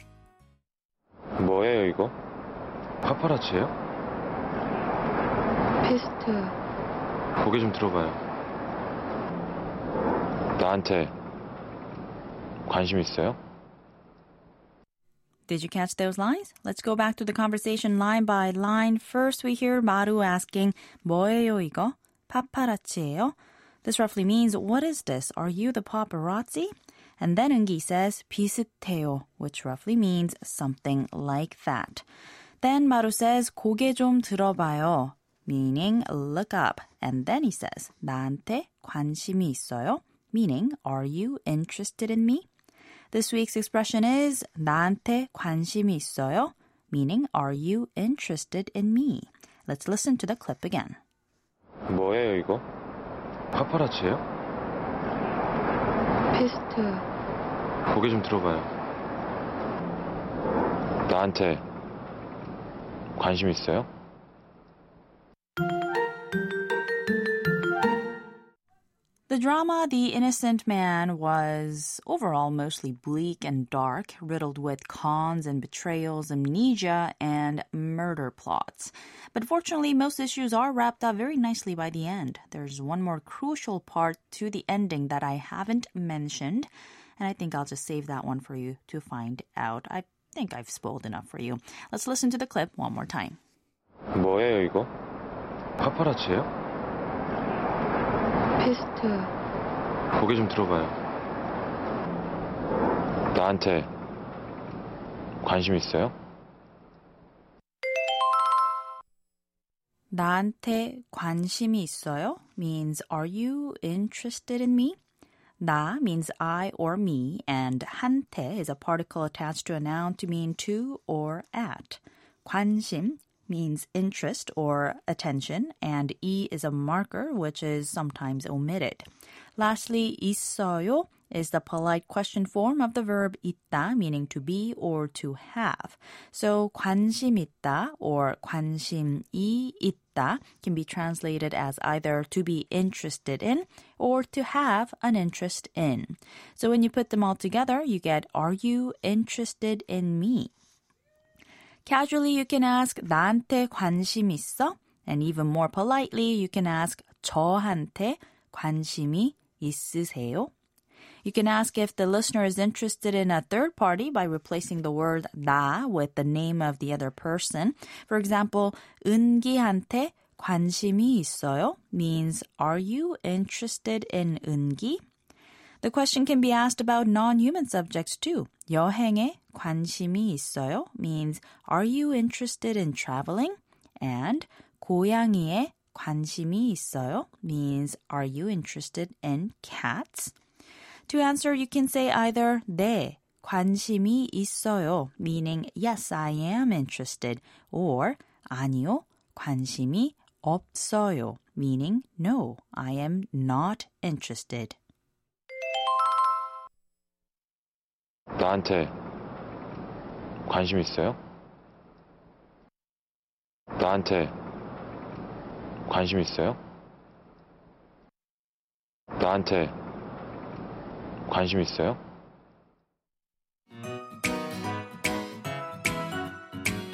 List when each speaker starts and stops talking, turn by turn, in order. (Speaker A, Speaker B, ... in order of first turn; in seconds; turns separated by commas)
Speaker A: 1.4-2.1, Speaker A: 3.0-3.7, Speaker B: 5.8-6.5, Speaker A: 7.4-8.2, Speaker A: 10.6-11.1, Speaker A: 12.7-13.4, Speaker C: 15.5-32.0, Speaker C: 32.6-42.5, Speaker C: 43.1-51.0, Speaker A: 51.9-52.6, Speaker A: 53.5-54.2, Speaker B: 56.3-57.0, Speaker A: 57.9-58.7, Speaker A: 61.1-61.6, Speaker A: 63.2-63.9, Speaker C: 69.3-93.4, Speaker A: 94.1-94.9, Speaker A: 95.8-96.5, Speaker B: 98.6-99.3, Speaker A: 100.2-100.9, Speaker A: 103.3-103.9, Speaker A: 105.4-106.1, Speaker C: 110.1-115.0, Speaker C: 115.6-150.5, Speaker C: 151.8-160.5, Speaker C: 161.2-175.0, Speaker C: 175.8-190.3, Speaker C: 191.1-204.8, Speaker A: 208.4-208.9, Speaker A: 210.5-211.2, Speaker A: 213.8-214.3, Speaker A: 215.9-216.6, Speaker A: 219.2-219.8, Speaker A: 221.3-222.0